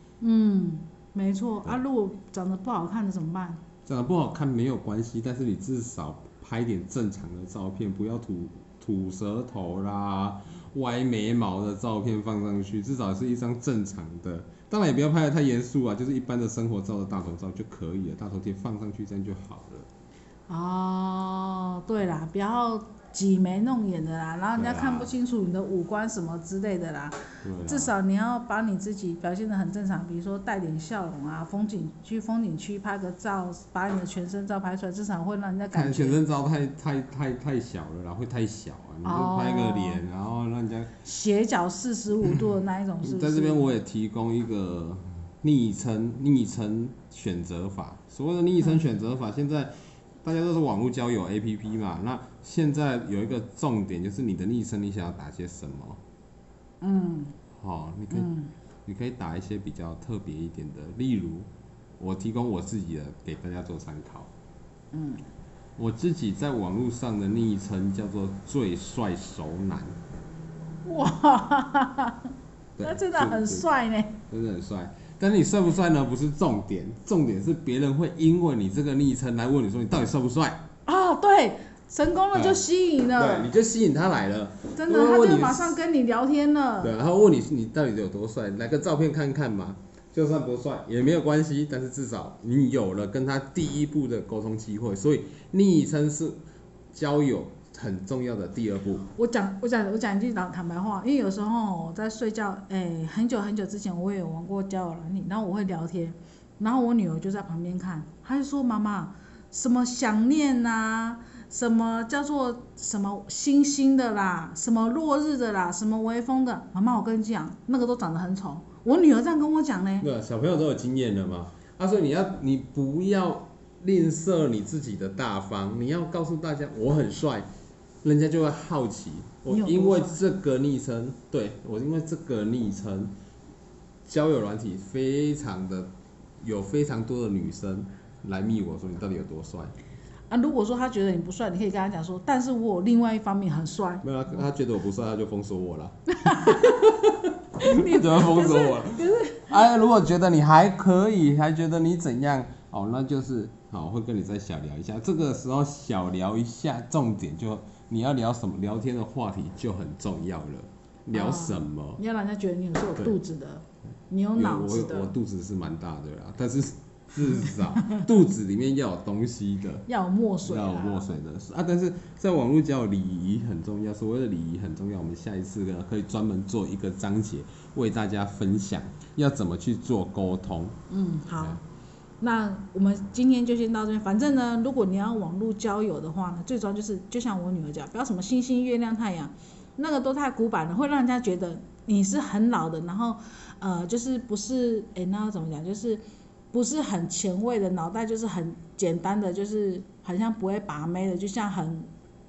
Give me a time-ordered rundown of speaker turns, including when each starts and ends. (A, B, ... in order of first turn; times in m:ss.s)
0:00.2-0:03.6 A
0:03.8-0:19.9 B
0:20.5-0:36.2 A
0:24.6-0:25.1 B
0:27.4-0:27.9 B
0:35.7-0:40.9 B
0:39.0-0:40.0 A
0:41.0-0:43.7 A
0:43.0-0:56.0 B
0:56.8-0:57.4 A
0:57.6-0:58.3 B
0:58.1-0:58.5 A
0:58.8-1:04.3 B
1:04.9-1:05.2 A
1:05.8-1:10.0 B
1:10.8-1:14.2 A
1:12.8-1:13.7 B
1:14.3-1:20.7 B
1:20.9-1:23.5 A
1:22.3-1:25.8 B
1:24.8-1:26.9 A
1:26.8-1:36.4 B
1:36.9-1:39.1 B
1:39.1-2:00.1 A
2:00.0-2:07.5 B
2:08.0-2:13.1 B
2:09.5-2:10.2 A
2:14.0-2:19.7 B
2:20.3-2:24.4 A
2:24.0-2:42.0 B
2:26.2-2:26.8 A
2:27.6-2:29.6 A
2:41.1-2:45.1 A
2:44.4-2:49.9 B
2:49.9-2:51.1 A
2:50.4-3:00.8 B
3:00.9-3:01.6 A
3:02.2-3:21.9 A